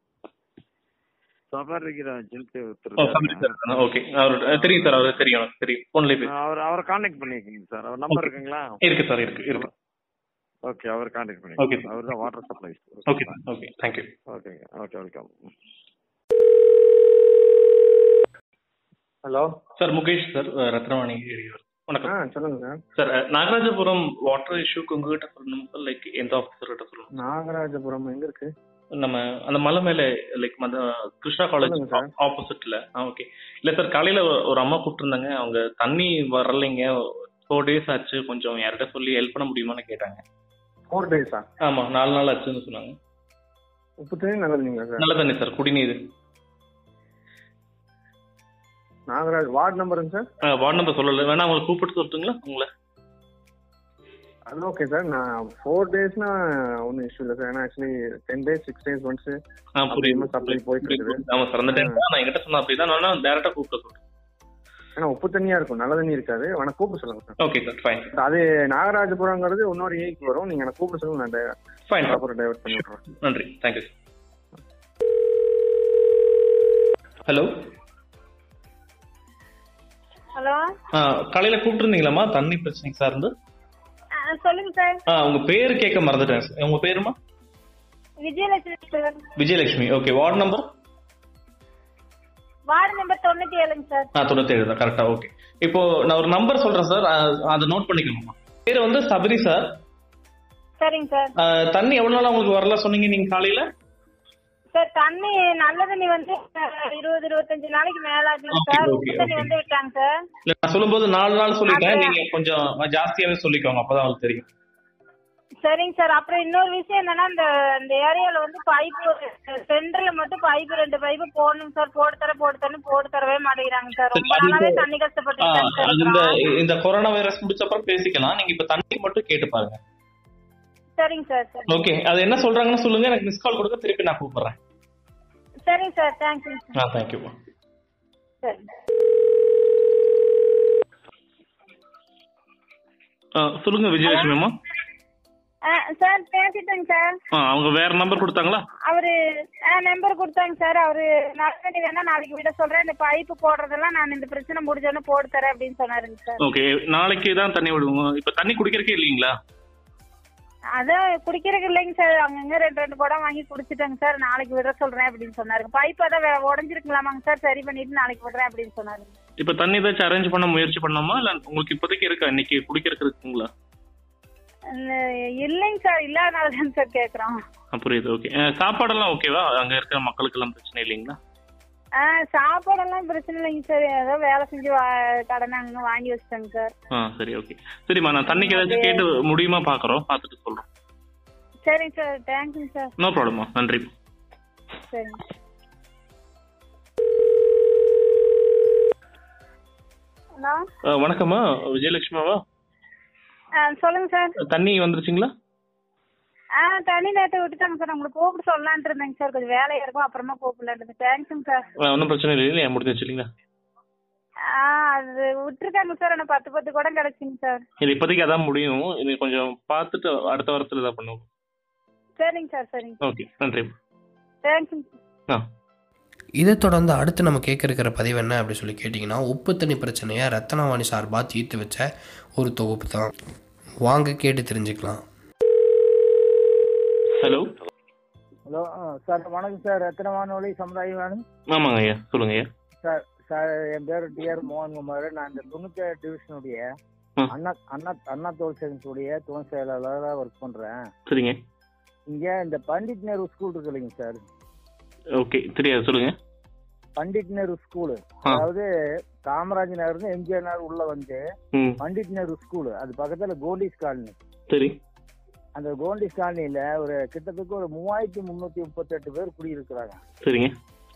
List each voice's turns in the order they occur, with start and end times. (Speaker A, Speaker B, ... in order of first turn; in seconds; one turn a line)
Speaker A: 1.5-3.5
Speaker B: 3.0-6.3
Speaker A: 4.4-5.2
Speaker A: 6.2-8.8
Speaker B: 8.1-9.6
Speaker A: 9.4-9.7
Speaker A: 10.6-13.4
Speaker B: 11.6-11.8
Speaker B: 13.1-14.1
Speaker A: 14.3-15.3
Speaker C: 19.2-19.5
Speaker B: 19.8-22.1
Speaker C: 22.0-22.8
Speaker B: 22.9-27.1
Speaker C: 27.1-28.5
Speaker B: 29.0-40.2
Speaker C: 31.6-32.1
Speaker C: 40.9-41.4
Speaker B: 41.6-43.0
Speaker C: 44.0-45.0
Speaker B: 45.0-46.0
Speaker C: 49.1-50.2
Speaker B: 50.5-52.7
Speaker C: 54.5-59.4
Speaker B: 59.8-64.0
Speaker C: 59.9-62.0
Speaker C: 65.0-67.3
Speaker B: 67.4-68.1
Speaker C: 68.2-71.4
Speaker B: 71.9-72.2
Speaker C: 72.0-73.0
Speaker B: 72.7-73.9
Speaker D: 80.4-80.6
Speaker B: 81.0-83.3
Speaker D: 84.2-85.0
Speaker B: 85.1-87.1
Speaker D: 88.2-89.2
Speaker B: 89.4-90.7
Speaker D: 92.7-94.1
Speaker B: 94.2-99.7
Speaker D: 100.8-101.3
Speaker B: 101.4-103.7
Speaker D: 104.7-110.1
Speaker B: 108.5-109.5
Speaker B: 110.5-114.5
Speaker D: 111.7-112.1
Speaker D: 115.6-126.3
Speaker B: 124.1-124.9
Speaker B: 125.4-129.8
Speaker D: 131.0-131.8
Speaker B: 131.7-134.6
Speaker D: 135.7-136.7
Speaker B: 136.8-137.3
Speaker B: 143.4-144.5
Speaker D: 144.1-144.3
Speaker D: 145.6-147.1
Speaker B: 147.4-148.6
Speaker D: 148.9-149.1
Speaker D: 149.6-156.4
Speaker B: 156.4-159.3
Speaker D: 160.8-169.1
Speaker B: 169.4-173.5
Speaker D: 174.7-177.4
Speaker B: 177.7-181.2
Speaker D: 182.0-186.7
Speaker B: 186.9-190.6
Speaker D: 188.3-189.0
Speaker D: 191.7-192.9
Speaker B: 193.0-193.9
Speaker D: 194.9-195.2
Speaker B: 200.9-202.4
Speaker D: 203.6-204.3
Speaker B: 204.5-205.3
Speaker D: 206.6-211.6
Speaker B: 211.8-213.3
Speaker D: 214.5-217.6
Speaker B: 217.8-221.2
Speaker D: 222.2-223.0
Speaker B: 223.0-223.7
Speaker D: 224.4-224.9
Speaker E: 226.4-233.1
Speaker E: 233.8-235.0
Speaker B: 237.2-237.5
Speaker F: 238.5-241.2
Speaker B: 241.5-242.5
Speaker F: 242.8-246.6
Speaker F: 247.3-250.8
Speaker B: 251.1-251.4
Speaker F: 252.1-254.2
Speaker B: 255.2-256.1
Speaker F: 257.0-258.6
Speaker F: 259.3-261.2
Speaker B: 261.5-261.8
Speaker F: 261.8-264.1
Speaker B: 264.5-264.8
Speaker F: 265.6-270.0
Speaker B: 270.2-270.6